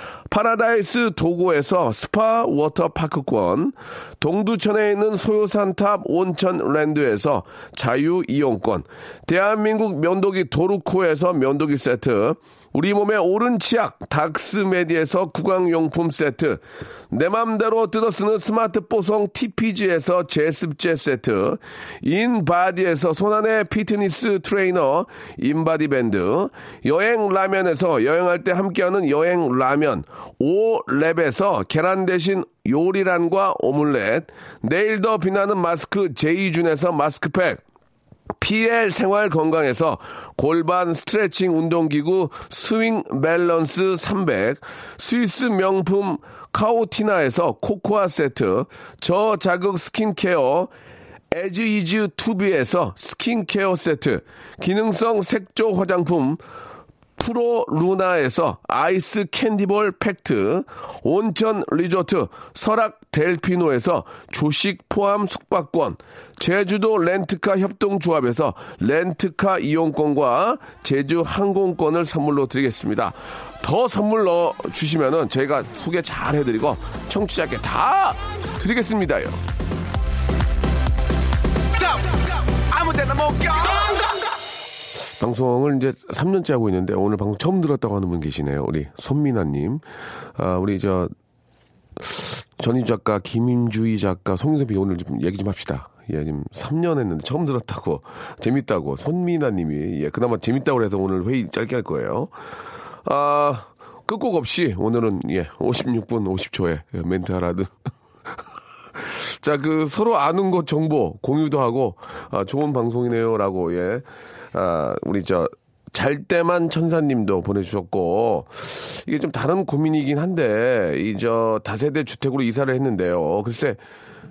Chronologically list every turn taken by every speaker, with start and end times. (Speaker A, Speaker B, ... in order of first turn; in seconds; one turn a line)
Speaker A: 0.3-37.6
Speaker A: 38.4-50.7
Speaker A: 51.3-56.4
Speaker A: 57.2-79.4
Speaker A: 81.8-84.1
Speaker A: 85.2-89.8
Speaker A: 90.4-91.1
Speaker A: 92.0-102.3
Speaker A: 103.0-107.7
Speaker A: 109.0-123.8